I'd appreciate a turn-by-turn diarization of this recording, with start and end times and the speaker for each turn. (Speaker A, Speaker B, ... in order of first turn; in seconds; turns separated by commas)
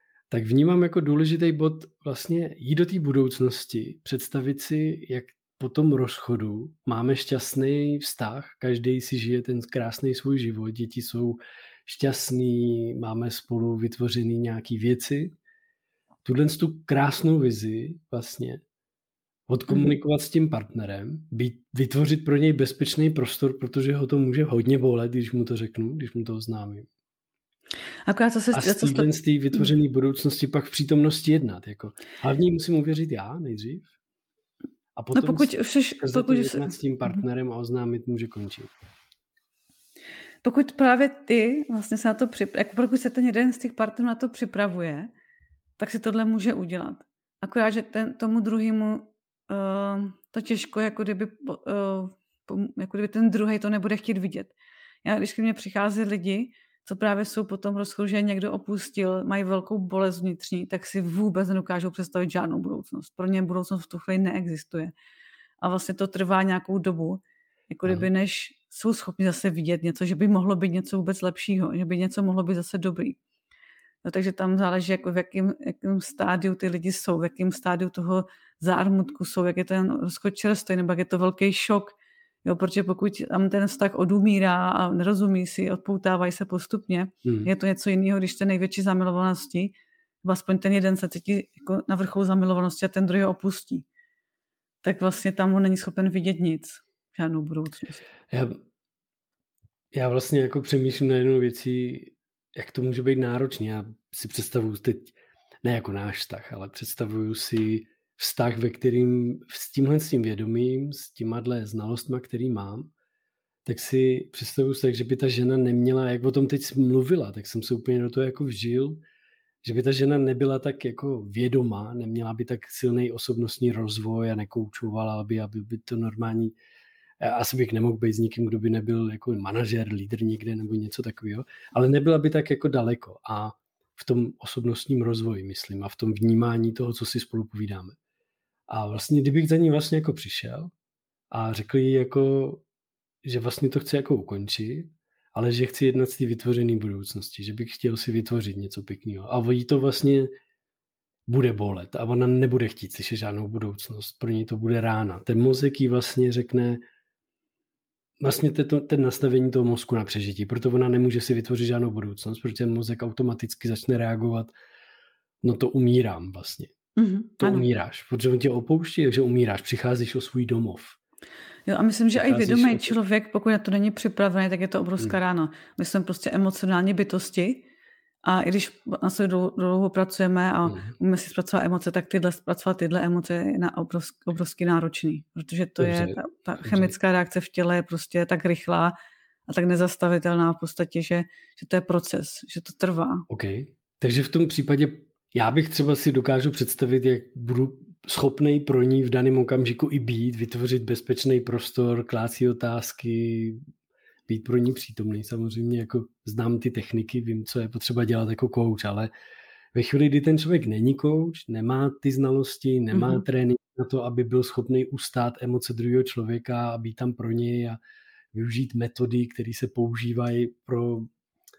Speaker A: 0.3-15.3, Speaker A: 16.2-18.6, Speaker A: 19.5-26.9, Speaker B: 28.1-29.7, Speaker A: 28.5-33.9, Speaker A: 35.0-38.7, Speaker B: 35.1-37.2, Speaker B: 40.4-45.1, Speaker B: 45.8-64.9, Speaker B: 65.6-73.2, Speaker B: 74.0-93.8, Speaker A: 87.2-87.5, Speaker B: 94.8-98.0, Speaker A: 98.3-98.6, Speaker A: 99.9-112.9, Speaker A: 113.7-119.0, Speaker A: 119.6-126.5, Speaker A: 127.2-138.0, Speaker A: 138.7-140.7, Speaker A: 141.3-142.6, Speaker A: 143.2-150.3, Speaker A: 151.3-156.8, Speaker A: 158.2-164.5, Speaker A: 165.4-166.7, Speaker B: 166.9-167.7, Speaker A: 167.4-171.0, Speaker B: 171.7-177.7, Speaker A: 172.1-173.0, Speaker B: 178.2-188.9, Speaker A: 180.7-180.9, Speaker A: 185.8-186.9, Speaker B: 189.5-193.2, Speaker A: 193.3-203.6, Speaker A: 204.3-209.1, Speaker A: 209.7-217.8, Speaker B: 212.9-213.2, Speaker A: 218.3-221.1